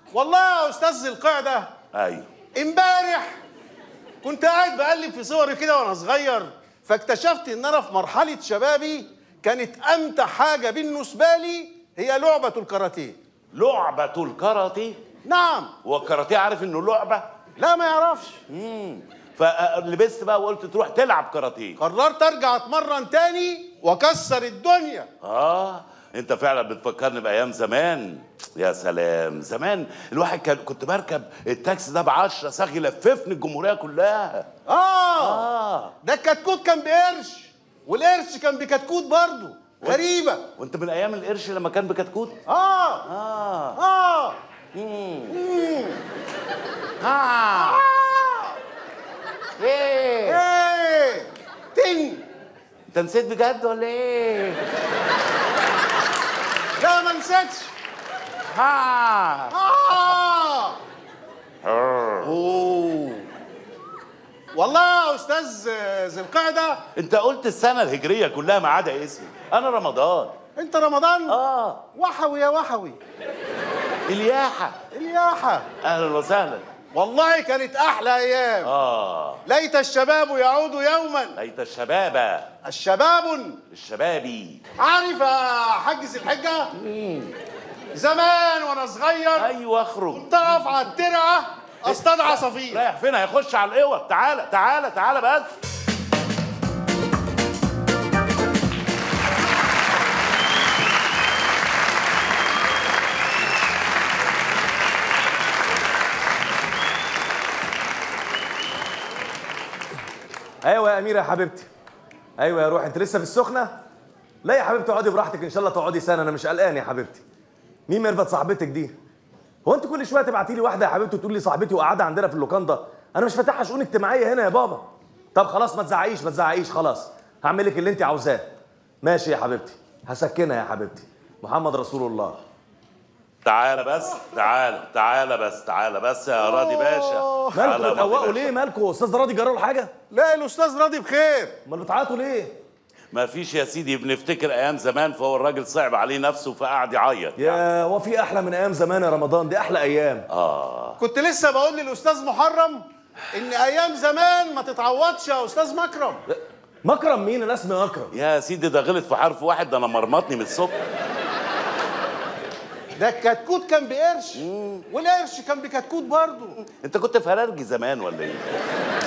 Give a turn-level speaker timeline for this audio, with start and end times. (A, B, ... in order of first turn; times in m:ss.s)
0:00.1-0:01.7 A
0:01.9-0:02.3 B
0:02.5-0:03.4 A
0:04.2-0:13.2 A
0:13.5-0:15.0 B
0:15.2-0:15.7 A
0:15.8-0:17.3 B
0:17.6-0:18.4 A
0:18.5-0:21.8 B
0:21.8-0:25.1 A
0:25.2-0:34.5 B
0:34.7-0:35.4 A
0:35.2-0:36.0 B
0:36.0-0:40.4 A
0:40.6-0:42.4 B
0:42.5-0:43.0 A
0:43.0-0:43.8 B
0:43.8-0:44.4 A
0:44.7-0:45.3 B
0:45.3-0:46.0 A
0:47.0-0:47.9 B
0:47.6-0:48.5 A
0:49.6-0:50.4 B
0:50.3-0:52.2 A
0:52.9-0:54.7 B
0:56.8-0:57.7 A
0:58.5-0:59.6 B
0:59.5-1:00.8 A
1:01.6-1:02.3 B
1:02.2-1:03.3 A
1:04.5-1:06.8 A
1:06.9-1:10.3 B
1:10.6-1:11.4 A
1:11.3-1:11.8 B
1:11.9-1:13.0 A
1:14.1-1:14.8 B
1:14.9-1:15.6 A
1:15.8-1:16.6 B
1:16.9-1:18.7 A
1:18.6-1:19.4 B
1:19.4-1:21.4 A
1:21.4-1:22.5 B
1:22.6-1:23.6 A
1:23.7-1:24.6 B
1:24.8-1:26.7 A
1:26.7-1:27.3 B
1:27.9-1:29.5 A
1:29.4-1:30.3 B
1:30.1-1:32.8 A
1:31.8-1:35.5 B
1:50.6-1:51.7 C
1:52.4-1:53.8 C
1:54.4-1:57.2 C
1:57.9-1:59.0 C
1:59.6-2:04.8 C
2:05.3-2:08.5 C
2:09.0-2:12.4 C
2:13.4-2:18.5 B
2:16.4-2:17.7 A
2:17.5-2:19.9 C
2:20.1-2:21.5 A
2:21.7-2:22.5 C
2:23.1-2:27.6 B
2:27.4-2:30.3 C
2:30.3-2:31.0 B
2:31.0-2:36.2 A
2:36.3-2:38.1 C
2:38.1-2:40.8 B
2:43.0-2:46.6 A
2:44.4-2:44.8 B
2:46.6-2:48.6 B